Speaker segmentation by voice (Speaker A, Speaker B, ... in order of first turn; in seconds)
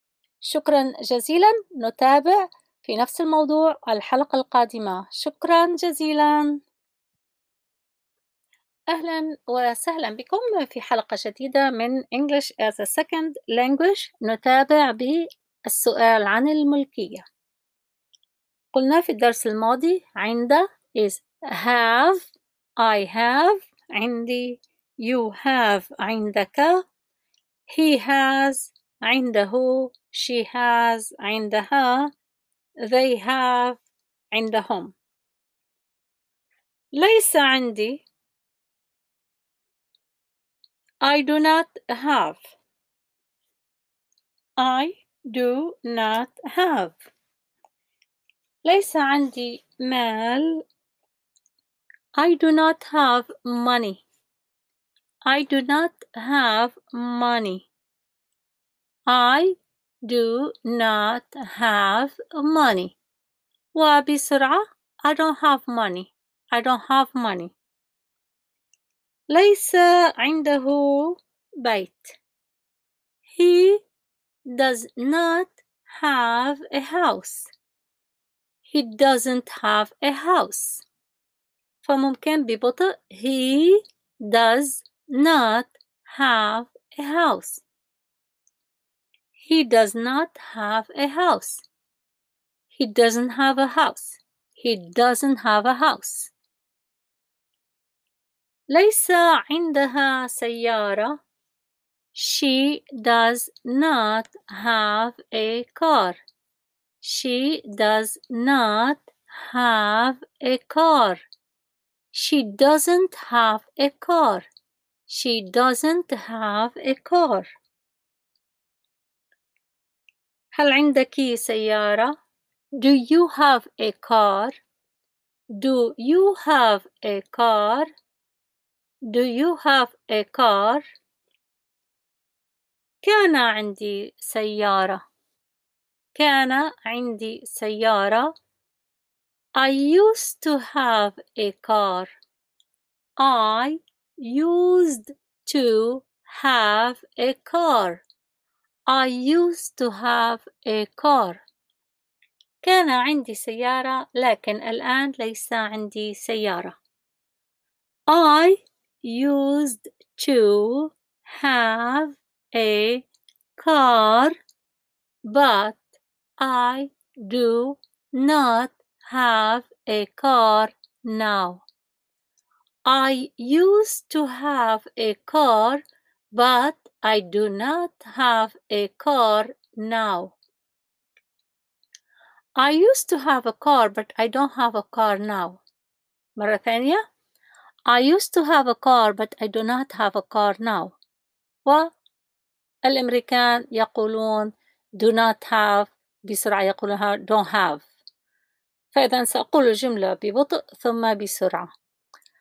Speaker A: 0.4-6.6, 8.9-17.2, 18.7-26.9, 27.7-32.1, 32.8-33.8, 34.3-35.0, 36.9-38.0, 41.0-42.5, 44.6-47.0, 48.6-50.6, 52.2-54.0, 55.2-57.7, 59.1-63.0, 63.7-67.5, 69.3-72.2, 73.3-73.8, 74.5-77.5, 78.6-80.8, 81.8-87.6, 89.4-91.6, 92.7-96.3, 98.7-101.2, 102.1-106.2, 107.0-111.2, 112.1-114.5, 115.1-117.5, 120.5-122.2, 122.8-124.6, 125.6-127.9, 129.1-130.8, 133.0-135.0, 136.1-138.3, 139.6-142.1, 143.2-148.0, 148.9-151.4, 152.6-156.8, 158.1-163.1, 163.6-164.4, 165.3-165.8, 166.4-171.6, 172.9-175.8, 176.3-180.4, 182.6-185.6, 186.4-187.0, 187.9-191.0, 192.8-197.9, 198.9-201.7